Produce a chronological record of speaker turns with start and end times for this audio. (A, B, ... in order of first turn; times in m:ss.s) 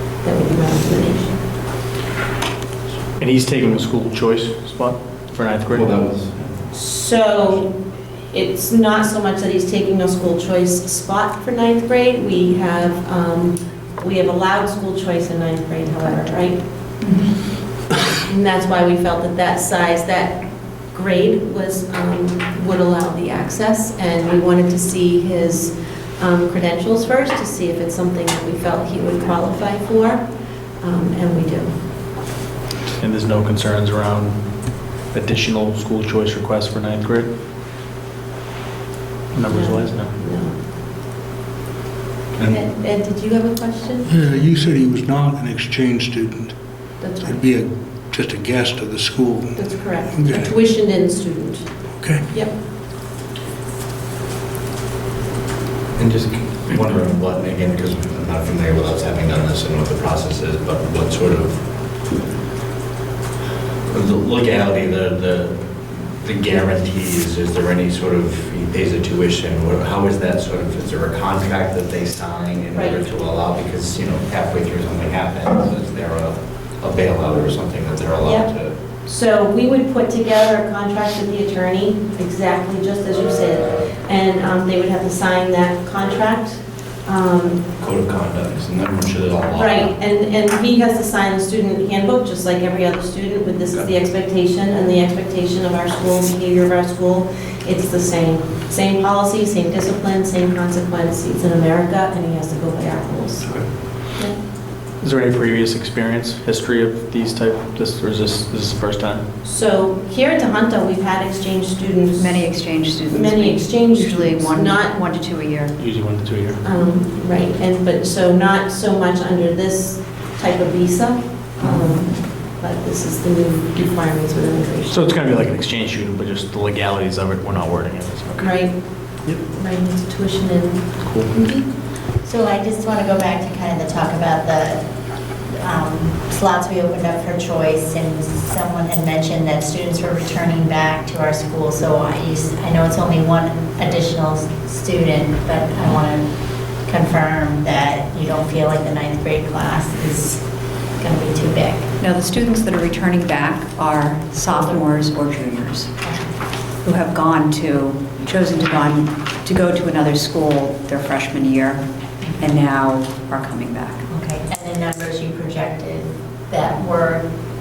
0:00.2-0:01.4 A
0:03.2-0:06.0 B
0:05.7-0:06.6 C
0:06.7-0:07.8 A
0:08.3-0:16.6 A
0:18.2-0:30.2 A
0:30.8-0:31.7 A
0:33.0-0:34.4 B
0:35.1-0:37.3 B
0:39.3-0:40.1 B
0:39.5-0:40.6 A
0:42.5-0:44.2 A
0:44.0-0:50.6 D
0:47.0-0:47.4 A
0:49.6-0:52.5 A
0:52.0-0:52.2 D
0:56.0-1:01.6 C
1:03.9-1:05.6 C
1:06.2-1:18.7 C
1:12.8-1:13.0 A
1:18.2-1:18.5 A
1:19.0-1:27.6 A
1:27.8-1:29.9 C
1:29.5-1:43.5 A
1:43.4-1:43.7 C
1:45.0-1:49.2 B
1:49.4-1:55.0 A
1:52.2-1:55.8 E
1:55.8-1:56.6 B
1:56.6-2:05.1 A
2:04.9-2:08.6 B
2:08.4-2:10.8 A
2:11.0-2:11.3 B
2:12.2-2:14.8 F
2:15.6-2:26.3 F
2:26.8-2:30.4 F
2:31.0-2:31.9 F
2:32.0-2:35.9 E
2:36.0-2:36.3 F
2:36.8-2:41.8 E
2:42.4-2:44.1 E
2:44.1-2:47.2 F